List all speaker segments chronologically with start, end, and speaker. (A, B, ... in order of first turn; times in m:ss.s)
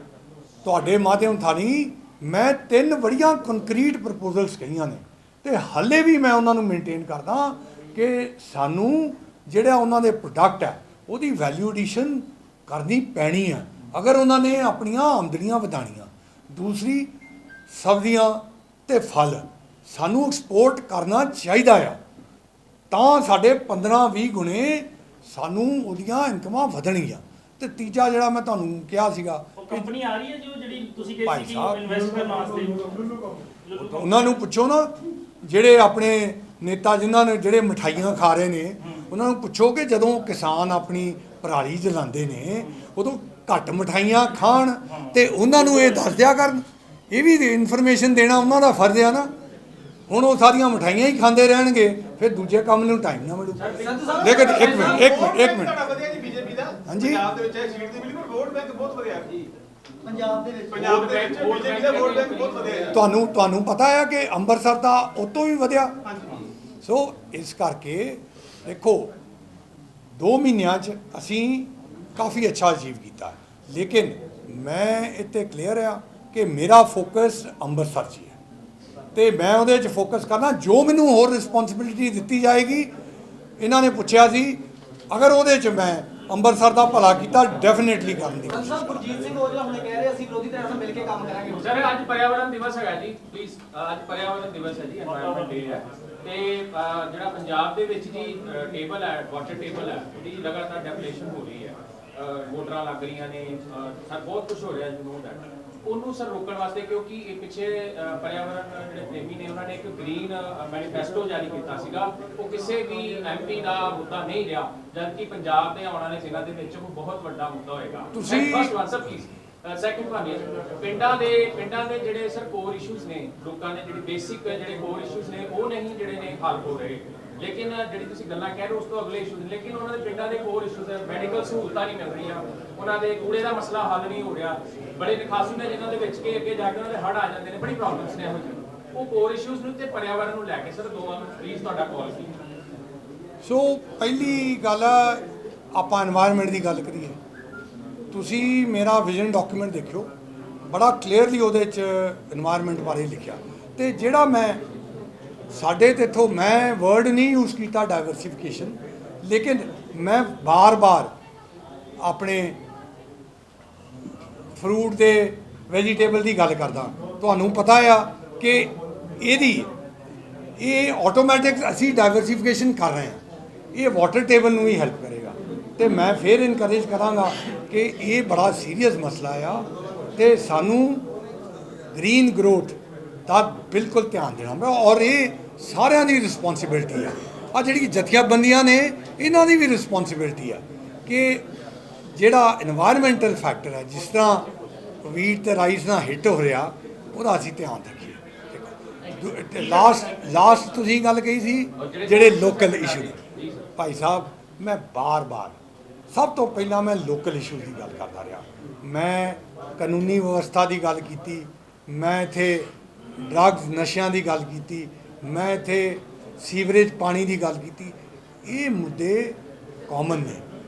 0:00.6-0:17.1 A
0:17.7-0:22.0 A
0:22.9-0:29.9 A
0:29.6-0:34.4 B
0:31.2-0:31.8 A
0:33.8-0:49.3 A
0:38.8-0:39.1 B
0:44.9-0:45.3 B
0:50.1-0:55.8 A
0:53.6-0:54.3 C
0:53.8-0:55.0 D
0:54.1-0:59.5 E
0:56.8-0:57.2 A
1:00.0-1:00.7 D
1:00.7-1:03.0 E
1:00.7-1:03.0 C
1:02.9-1:05.9 A
1:06.1-1:06.4 E
1:06.8-1:09.1 A
1:10.1-1:18.4 A
1:19.1-1:22.9 A
1:23.6-1:29.1 A
1:28.5-1:31.6 D
1:31.5-2:22.3 C
1:35.0-1:35.8 B
1:58.1-1:58.8 A
2:23.4-2:27.2 A
2:28.1-2:30.1 A
2:30.6-2:34.6 A
2:35.5-2:41.1 A
2:42.0-2:42.6 A
2:44.5-2:49.7 A
2:50.6-2:53.2 A
2:53.7-3:01.0 A
3:01.9-3:11.5 A
3:12.1-3:14.5 A
3:15.0-3:23.2 A
3:21.8-3:23.6 C
3:23.8-3:25.6 A
3:26.1-3:40.4 A